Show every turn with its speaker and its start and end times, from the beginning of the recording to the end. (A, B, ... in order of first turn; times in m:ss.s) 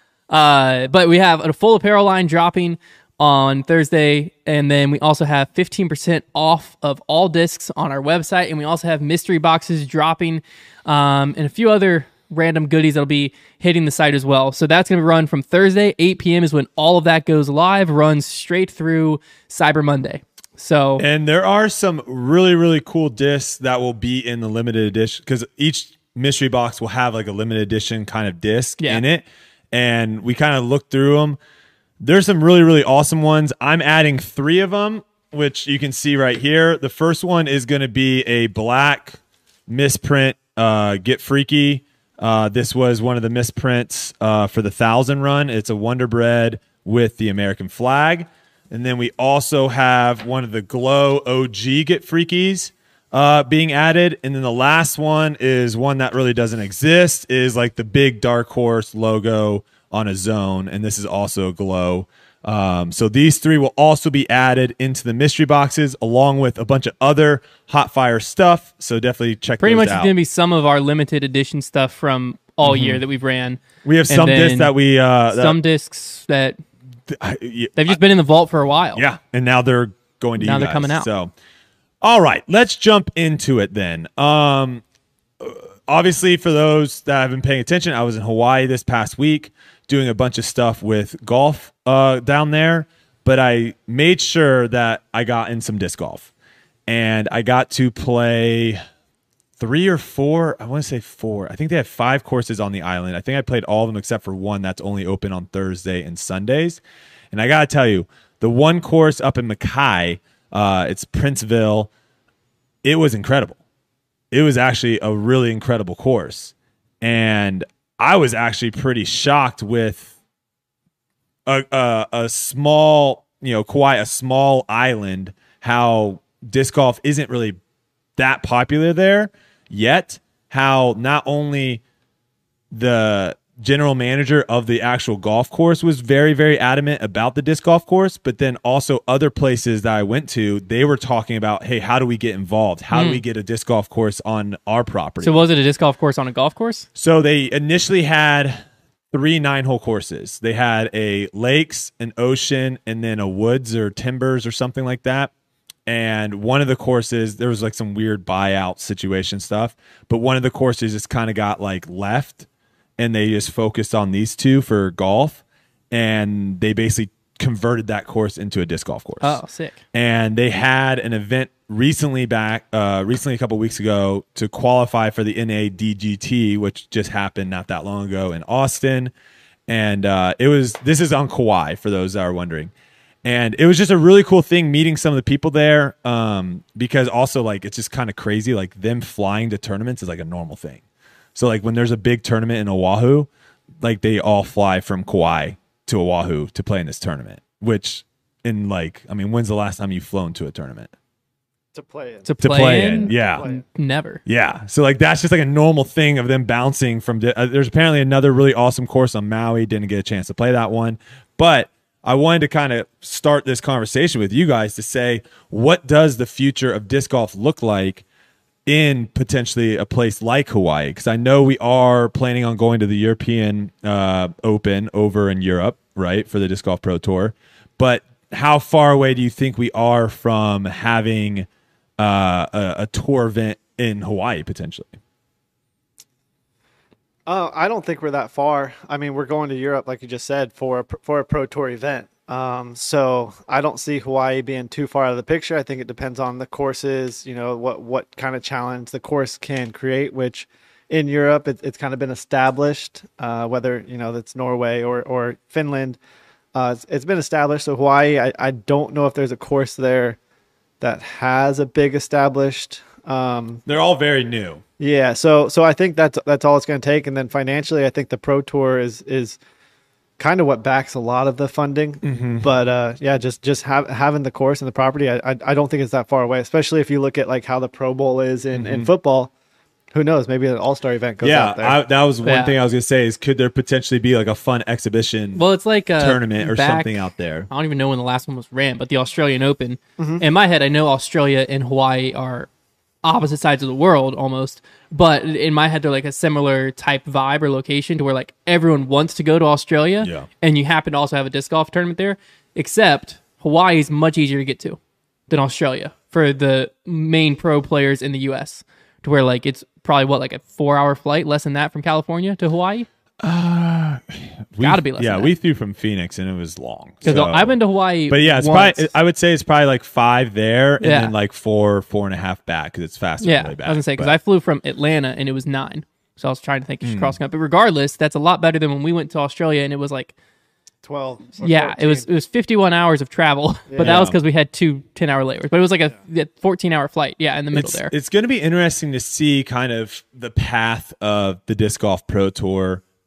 0:00.3-0:21.0 A
0:21.0-0:31.4 B
0:32.0-1:10.1 B
1:09.6-1:14.8 A
1:12.6-1:13.0 B
1:13.8-1:15.6 B
1:15.3-1:16.6 A
1:17.1-1:18.0 B
1:17.8-1:19.0 A
1:18.9-1:21.3 B
1:20.4-1:21.1 A
1:22.0-1:24.8 B
1:25.4-1:36.3 B
1:36.9-1:38.8 B
1:39.6-1:46.8 B
1:47.3-1:51.9 B
1:52.8-1:53.6 B
1:54.3-2:00.1 B
2:01.5-2:07.6 B
2:08.2-2:11.8 B
2:12.7-2:25.5 B
2:22.9-2:23.2 A
2:25.2-2:26.9 A
2:27.0-2:35.3 B
2:35.9-2:42.5 B
2:43.0-2:49.4 B
2:49.2-2:49.8 A
2:49.9-2:59.1 B
2:59.7-3:02.7 B
3:03.2-3:10.8 B
3:11.4-3:13.3 B
3:13.8-3:20.9 B
3:21.7-3:23.6 C
3:22.2-3:24.2 A
3:22.4-3:23.5 B
3:24.2-3:38.0 B
3:38.7-3:51.5 B
3:52.0-3:55.0 B
3:57.3-4:16.0 C
4:16.5-4:20.2 C
4:20.8-4:23.6 C
4:23.7-4:24.6 B
4:24.8-4:29.4 C
4:30.2-4:39.3 C
4:32.0-4:32.5 B
4:38.5-4:38.9 B
4:39.9-4:41.8 C
4:41.2-4:47.5 B
4:42.2-4:42.6 A
4:45.4-4:52.5 A
4:50.0-4:50.2 C
4:53.0-5:04.8 A
5:00.0-5:00.3 B
5:05.3-5:12.9 A
5:13.2-5:24.2 B
5:14.6-5:15.3 A
5:17.0-5:18.9 A
5:20.8-5:21.1 A
5:23.2-5:30.1 A
5:26.8-5:27.2 B
5:30.8-5:32.1 C
5:31.4-5:37.9 A
5:33.7-5:34.1 C
5:33.8-5:34.2 B
5:37.5-5:42.8 B